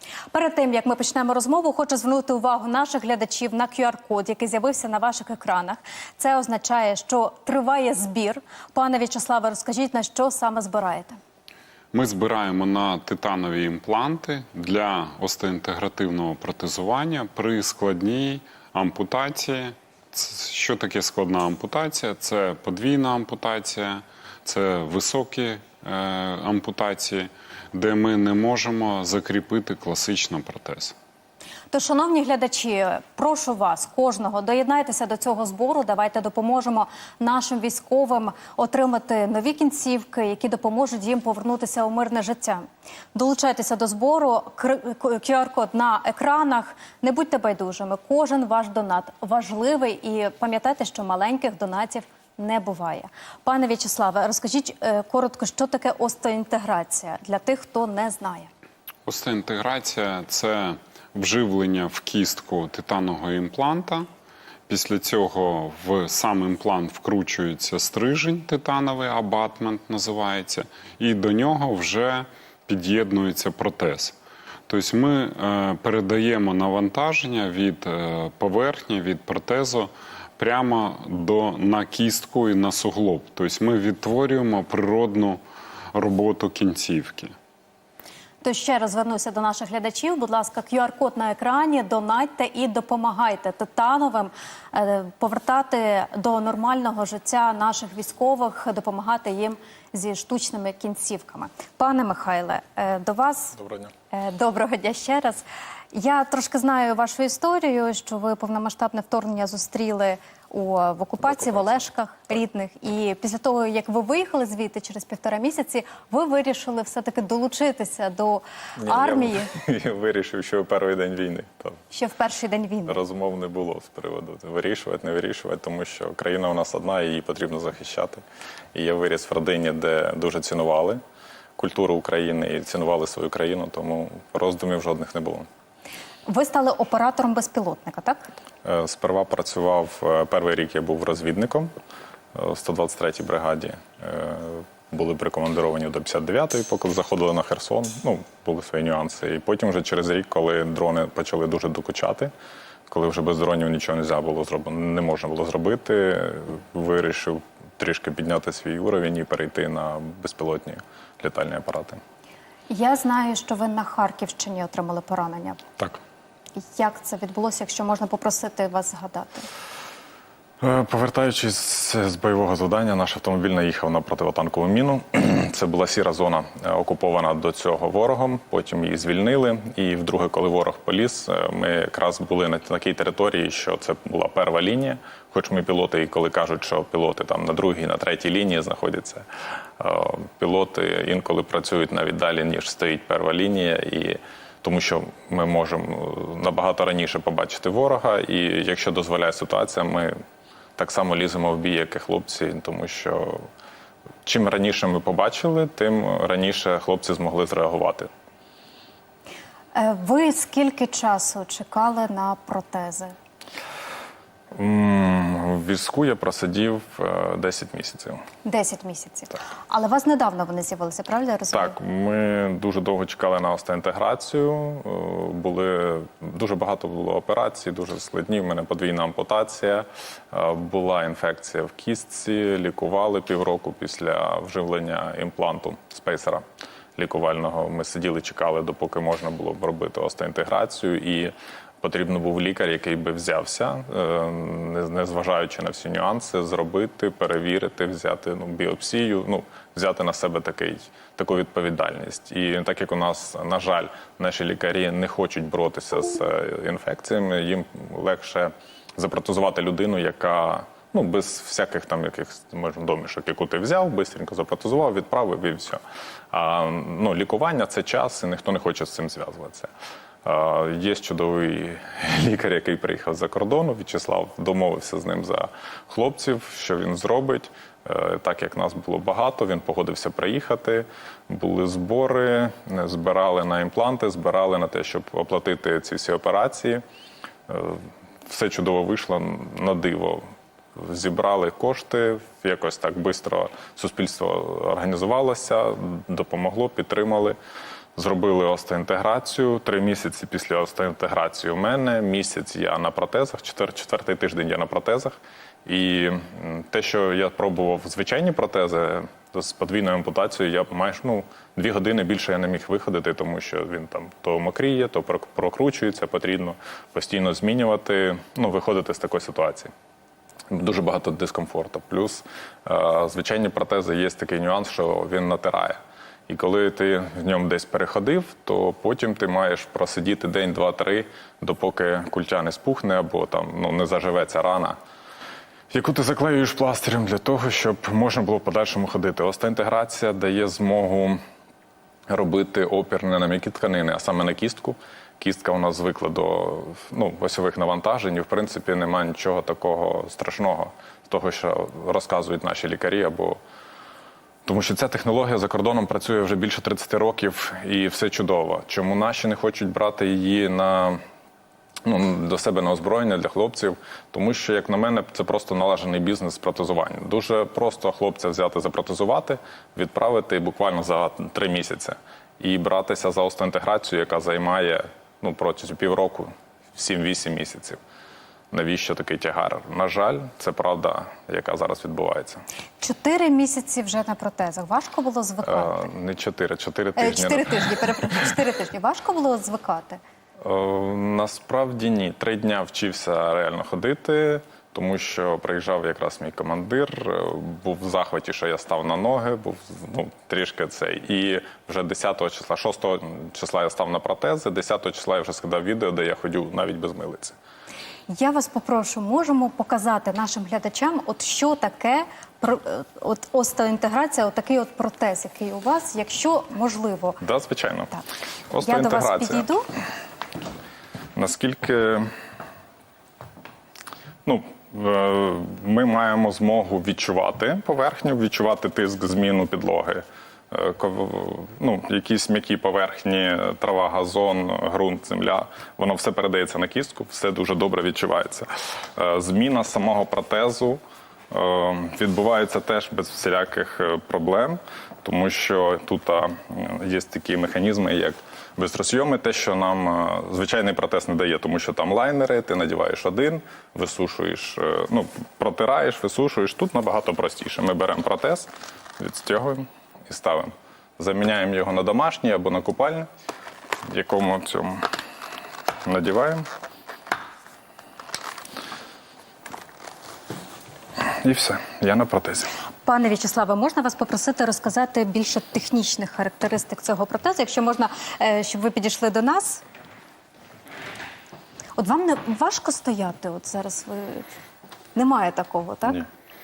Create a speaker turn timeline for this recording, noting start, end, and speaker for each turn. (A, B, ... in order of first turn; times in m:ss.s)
0:00.3-0:11.2 A
0:11.9-0:31.0 B
0:31.7-0:58.5 A
0:59.1-1:04.1 B
1:04.7-1:14.2 B
1:14.7-1:25.4 B
1:25.9-1:27.3 B
1:28.4-1:43.6 A
1:43.6-1:43.9 C
1:44.1-1:59.5 A
1:51.2-1:51.8 C
1:58.8-2:01.8 C
2:01.9-2:03.0 A
2:02.9-2:08.2 C
2:08.7-2:11.0 C
2:11.6-2:15.5 C
2:16.3-2:18.3 A
2:18.6-2:21.7 C
2:22.3-2:32.3 C
2:32.9-2:42.0 C
2:42.7-2:45.6 A
2:46.6-2:49.5 A
2:50.6-3:09.3 C
3:09.8-3:20.1 C
3:20.8-3:23.5 C
3:24.2-3:28.1 C
3:29.8-3:33.2 A
3:34.6-3:38.2 C
3:38.4-3:41.8 A
3:41.5-4:29.7 C
4:30.2-4:46.8 C
4:47.5-4:57.4 C
4:58.0-5:19.7 C
5:20.5-5:25.8 C
5:26.3-5:34.8 C
5:35.7-5:41.2 C
5:42.1-5:53.4 C
5:54.5-6:01.0 C
6:01.8-6:17.8 C
6:18.5-6:22.4 C
6:22.8-6:25.9 A
6:25.4-6:28.1 C
6:27.0-6:30.0 A
6:30.4-6:47.4 C
6:48.1-6:57.2 A
6:57.2-6:57.9 C
6:58.5-6:59.5 C
6:58.6-6:59.7 A
7:01.2-7:02.1 C
7:04.2-7:43.1 C
7:43.9-7:44.9 C
7:45.8-7:46.4 C
7:51.0-7:52.5 C
7:52.8-7:59.6 A
8:01.8-8:04.3 A
8:05.0-8:06.0 A